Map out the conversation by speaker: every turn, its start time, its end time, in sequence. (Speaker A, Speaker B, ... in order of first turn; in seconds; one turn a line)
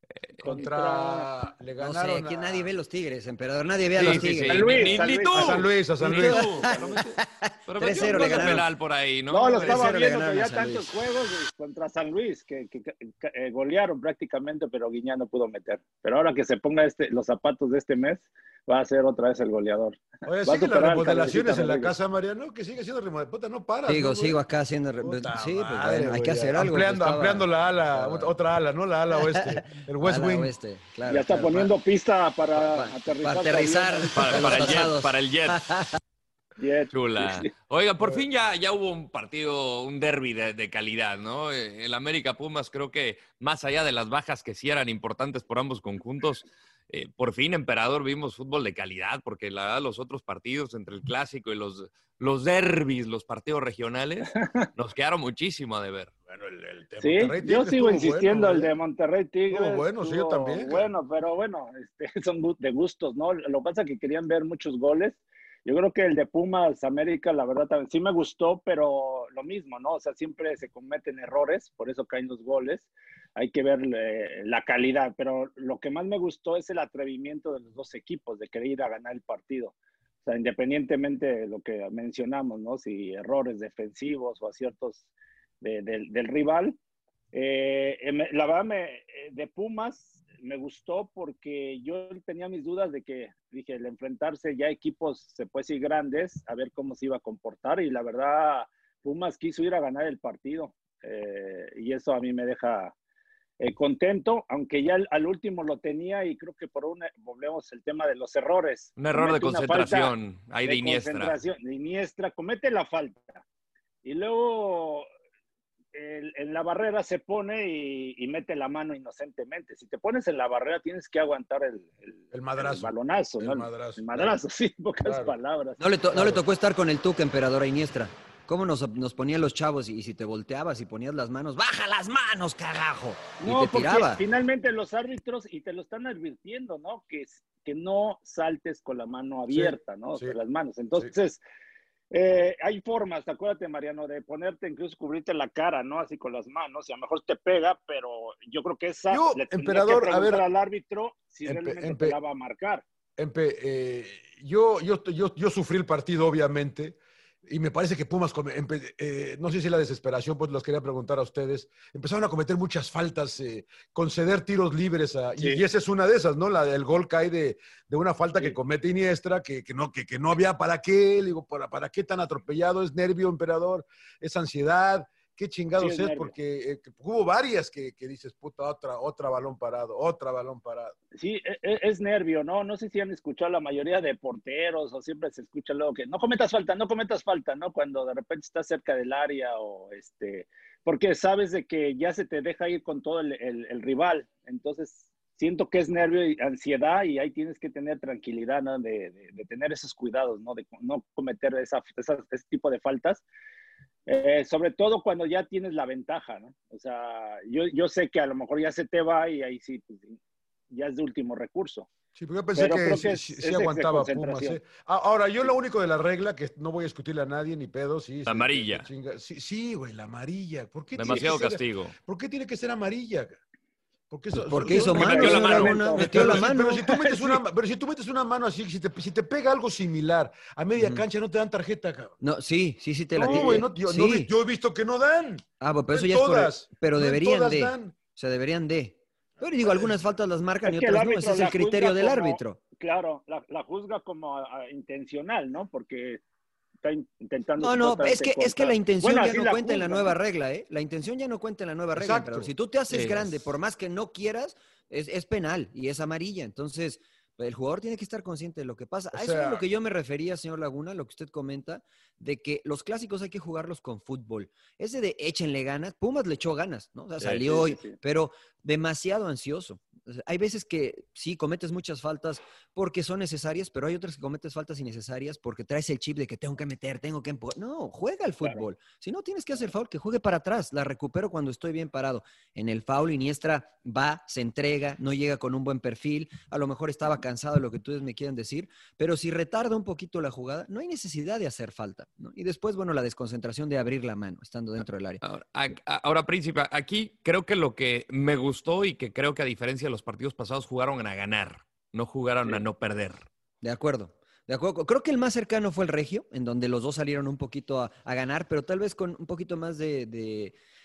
Speaker A: 0.4-1.3
Speaker B: 0.4-2.7
Speaker C: 1.8-4.9
Speaker D: 4.0-7.2
Speaker B: 4.0-6.5
Speaker A: 4.4-5.7
Speaker C: 6.1-8.6
Speaker A: 6.5-7.0
Speaker D: 7.7-9.8
Speaker A: 8.0-8.6
Speaker A: 9.3-21.9
Speaker C: 9.6-10.9
Speaker B: 20.2-24.4
Speaker C: 23.9-28.3
Speaker B: 25.0-30.5
Speaker C: 29.1-31.7
Speaker A: 31.1-34.8
Speaker C: 32.5-36.0
Speaker D: 34.1-35.7
Speaker A: 36.6-37.5
Speaker D: 36.9-56.1
Speaker B: 56.3-58.7
Speaker A: 57.0-85.1
Speaker B: 59.5-60.9
Speaker A: 85.6-86.8
Speaker A: 87.3-102.9
Speaker A: 103.6-110.1
Speaker D: 109.0-111.3
Speaker A: 110.6-113.4
Speaker A: 114.0-115.1
Speaker A: 115.9-125.8
Speaker B: 122.3-124.4
Speaker B: 125.0-125.3
Speaker C: 125.8-134.2
Speaker B: 126.1-126.4
Speaker A: 133.4-141.4
Speaker B: 139.5-140.3
Speaker A: 142.1-152.8
Speaker B: 149.1-150.4
Speaker B: 151.4-152.2
Speaker B: 153.2-180.9
Speaker A: 175.8-176.3
Speaker A: 181.1-203.2
Speaker A: 204.1-210.2
Speaker A: 210.7-211.9
Speaker B: 212.1-223.4
Speaker A: 212.5-214.6
Speaker D: 218.2-218.8
Speaker D: 220.9-221.9
Speaker A: 221.0-221.4
Speaker B: 224.1-232.1
Speaker C: 224.3-226.8
Speaker A: 224.7-227.4
Speaker D: 225.1-225.7
Speaker C: 230.8-231.0
Speaker C: 232.2-234.3
Speaker B: 233.1-237.9
Speaker A: 233.2-233.6
Speaker C: 235.6-242.6
Speaker B: 239.6-239.9
Speaker A: 240.6-246.2
Speaker A: 246.8-250.1
Speaker C: 247.6-295.2
Speaker B: 251.9-252.5
Speaker D: 252.9-253.2
Speaker B: 259.1-259.6
Speaker A: 267.2-267.9
Speaker D: 295.2-303.3
Speaker C: 303.6-310.5